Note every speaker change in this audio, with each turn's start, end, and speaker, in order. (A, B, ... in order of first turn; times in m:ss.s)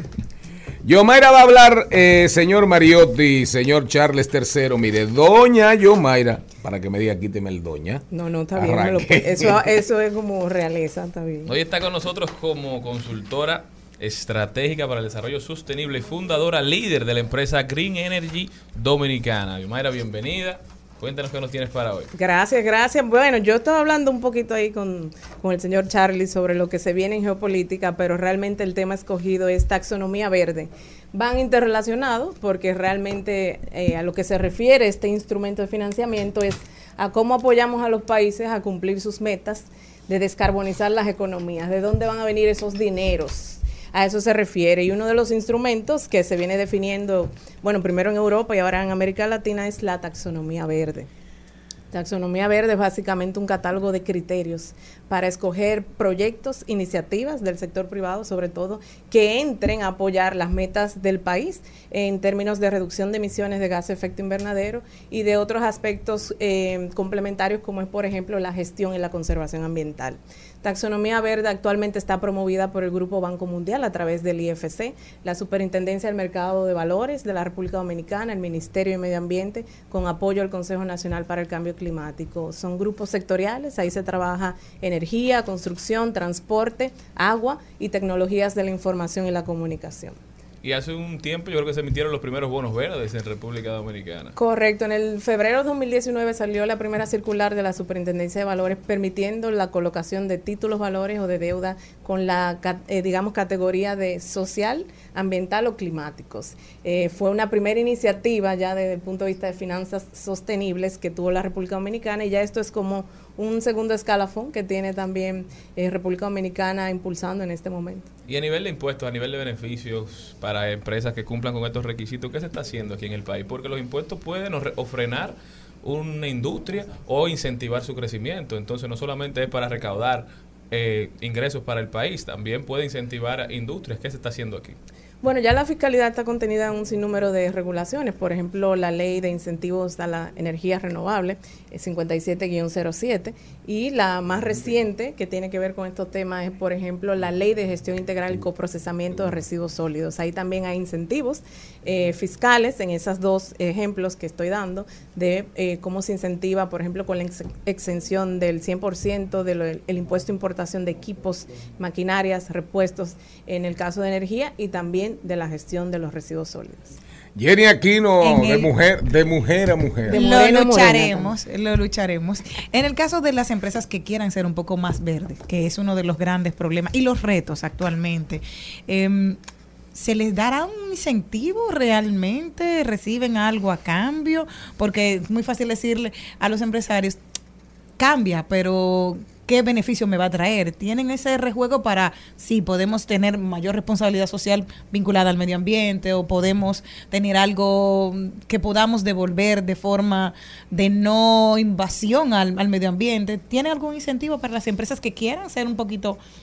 0:00.8-0:09.6 A
0:08.1-0:11.5 B
0:11.5-0:22.1 C
0:22.1-0:51.1 B
0:51.9-1:30.2 B
1:30.6-1:34.4 C
1:34.4-1:58.1 B
1:58.3-2:14.8 C
2:15.2-2:46.9 B
2:47.4-2:50.2 A
2:48.3-2:48.7 D
2:50.1-2:51.3 B
2:50.1-2:59.4 D
2:59.9-3:07.2 D
3:08.0-3:26.2 D